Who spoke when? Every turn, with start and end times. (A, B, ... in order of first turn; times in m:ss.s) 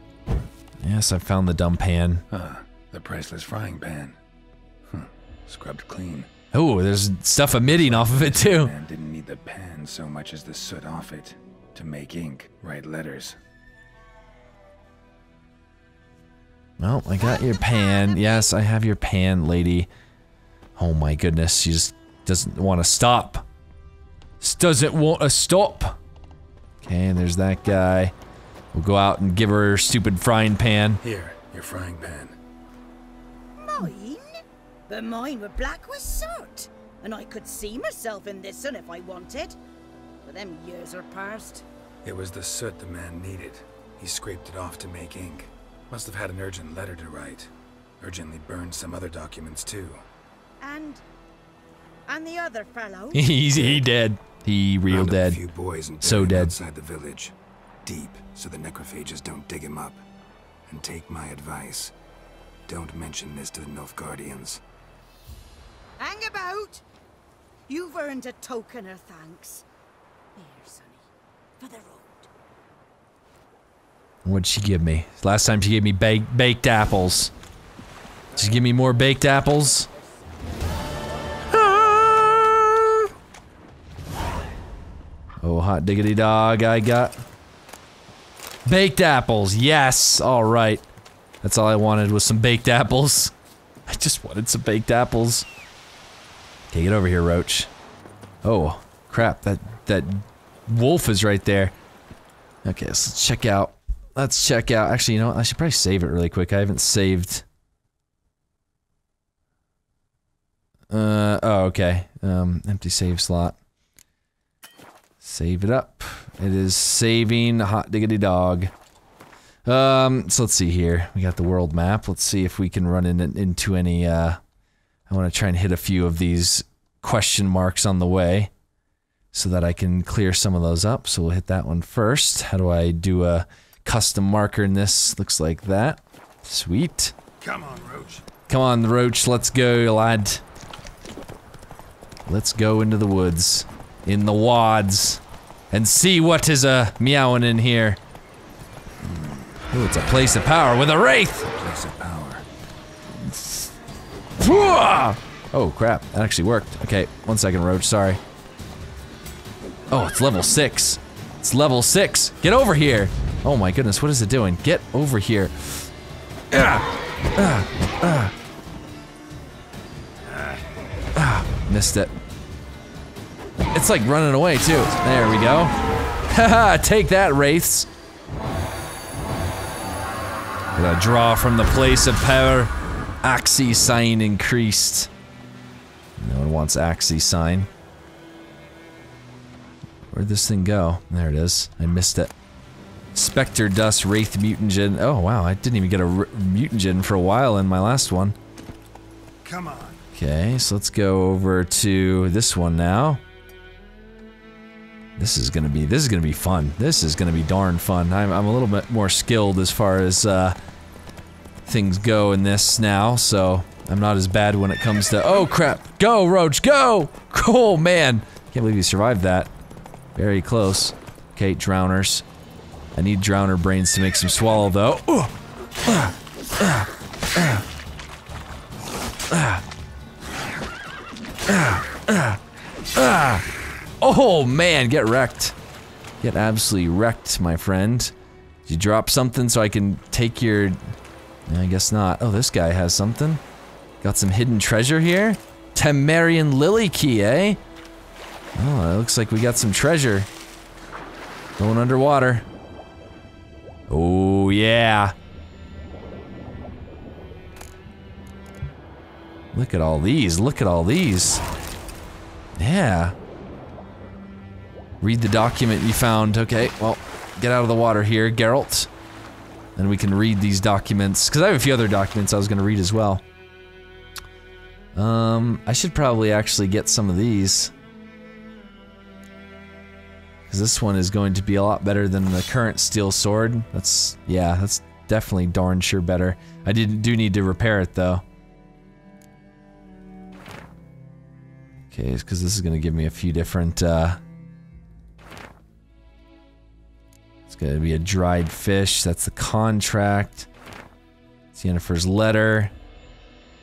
0:00.8-0:02.2 A
0:02.3-0:04.2 B
0:04.9-0:06.3 B
0:06.5-0:08.7 A
0:07.6-0:13.4 B
0:16.8-0:19.9 A
0:17.3-0:18.5 C
0:20.8-0:23.4 A
0:24.4-0:26.0 A
0:26.8-0:28.1 A
0:28.7-0:31.0 A
0:31.0-0:32.4 B
0:33.6-0:39.6 C
0:40.2-0:41.6 C
0:42.0-0:50.0 B
0:50.6-0:51.0 C
0:52.1-0:53.3 C
0:53.1-0:55.4 A
0:53.5-0:53.8 B
0:54.9-1:00.0 B
0:56.0-0:56.5 A
1:00.7-1:01.9 B
1:02.7-1:04.6 B
1:06.0-1:06.8 C
1:07.7-1:09.6 C
1:10.3-1:11.0 C
1:11.6-1:12.3 C
1:14.2-1:17.3 A
1:18.3-1:19.9 A
1:21.5-1:23.1 A
1:25.4-1:27.2 A
1:28.6-1:30.8 A
1:31.4-1:33.3 A
1:33.9-1:35.5 A
1:36.7-1:37.7 A
1:38.4-1:41.7 A
1:42.6-1:47.4 A
1:50.9-1:53.6 A
1:55.2-1:58.7 A
1:59.6-2:04.4 A
2:05.1-2:08.5 A
2:09.3-2:17.2 A
2:17.4-2:18.2 B
2:18.5-2:20.4 A
2:22.2-2:28.0 A
2:29.0-2:29.6 B
2:29.7-2:31.5 A
2:31.5-2:32.4 B
2:33.1-2:33.7 A
2:34.4-2:38.2 A
2:39.9-2:45.9 A
2:46.5-2:48.3 A
2:51.1-2:52.1 A
2:53.7-2:55.7 A
2:56.3-2:57.9 A
3:00.7-3:02.7 A
3:03.2-3:05.1 A
3:06.2-3:07.7 A
3:10.1-3:12.3 A
3:13.1-3:18.4 A
3:19.4-3:19.9 B
3:20.1-3:23.2 A
3:25.2-3:30.6 A
3:31.6-3:39.5 A
3:40.1-3:42.2 A
3:42.9-3:45.3 A
3:45.8-3:47.6 A
3:49.3-3:49.6 A
3:51.5-3:52.4 A
3:52.9-3:53.4 A
3:54.0-3:55.6 A
3:56.2-3:58.1 A
3:58.6-4:01.0 A
4:01.5-4:03.4 A
4:04.0-4:07.6 A
4:08.5-4:10.3 A
4:11.6-4:12.4 A
4:13.9-4:15.1 A
4:19.5-4:21.4 A
4:22.6-4:23.2 A
4:25.0-4:28.9 A
4:29.8-4:33.2 A
4:34.9-4:37.7 A
4:40.5-4:48.2 A
4:51.9-4:54.2 A
4:57.5-5:00.5 A
5:01.5-5:02.7 A